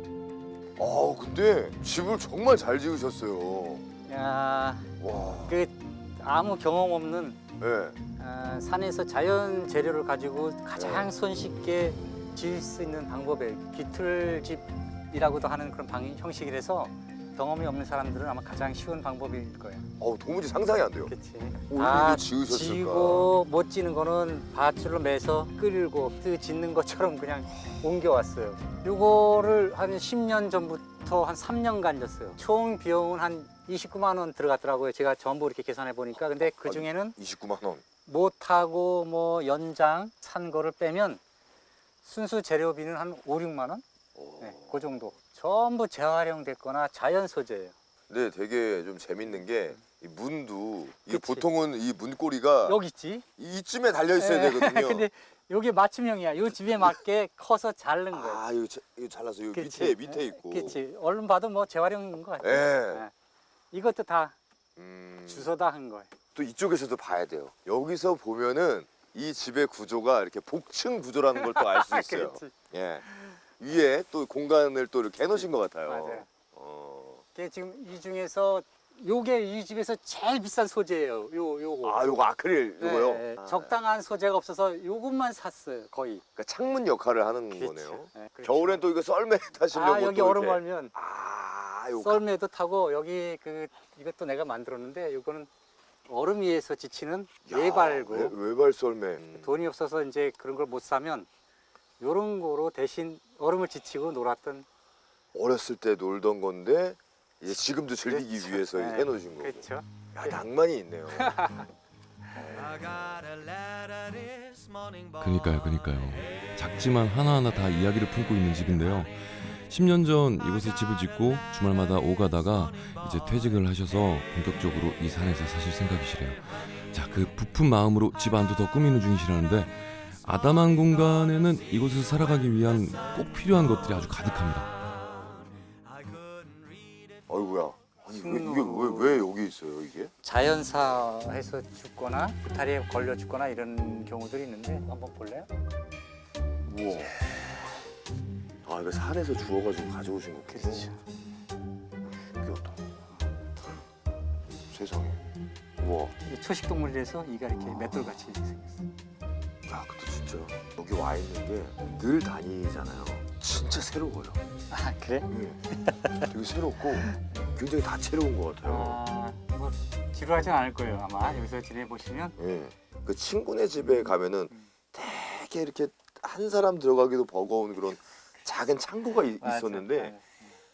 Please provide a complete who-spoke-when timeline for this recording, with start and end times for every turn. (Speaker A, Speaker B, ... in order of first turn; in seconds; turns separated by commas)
Speaker A: 0.8-3.9, Speaker B: 4.0-4.9, Speaker A: 5.0-5.6, Speaker B: 5.5-7.4, Speaker A: 7.6-8.0, Speaker B: 8.2-19.9, Speaker A: 10.8-11.1, Speaker A: 20.0-21.1, Speaker B: 21.1-37.2, Speaker A: 21.7-23.3, Speaker A: 36.4-37.8, Speaker B: 38.1-41.2, Speaker B: 42.0-43.8, Speaker A: 44.2-44.8, Speaker B: 44.4-47.8, Speaker A: 48.1-52.8, Speaker B: 51.1-51.5, Speaker B: 52.7-53.2, Speaker A: 53.4-55.1, Speaker B: 54.2-58.4, Speaker A: 58.1-60.8, Speaker B: 59.5-63.1, Speaker A: 62.4-63.0, Speaker B: 63.7-64.4, Speaker A: 64.8-65.5, Speaker B: 65.3-66.1, Speaker A: 66.3-73.0, Speaker B: 71.4-72.5, Speaker A: 73.6-77.2, Speaker B: 75.9-76.3, Speaker B: 77.3-82.1, Speaker A: 81.8-83.7, Speaker B: 82.8-86.2, Speaker A: 86.4-92.2, Speaker B: 87.5-88.8, Speaker B: 89.7-90.9, Speaker B: 92.0-95.5, Speaker B: 96.1-98.4, Speaker A: 97.5-99.5, Speaker B: 99.3-101.3, Speaker B: 102.0-104.7, Speaker A: 105.3-111.4, Speaker B: 108.1-109.9, Speaker B: 111.2-111.7, Speaker A: 112.3-113.4, Speaker C: 115.2-134.7, Speaker A: 137.3-140.1, Speaker B: 138.1-139.3, Speaker B: 140.2-145.5, Speaker A: 146.7-147.2, Speaker A: 148.7-150.9, Speaker B: 150.5-151.0, Speaker A: 152.3-152.8, Speaker A: 154.7-155.2, Speaker A: 155.8-156.1, Speaker B: 156.2-158.9, Speaker A: 159.7-164.4, Speaker B: 164.7-165.3, Speaker A: 165.3-165.6, Speaker A: 166.2-169.0, Speaker B: 168.6-172.4, Speaker A: 172.4-180.1, Speaker B: 179.4-180.5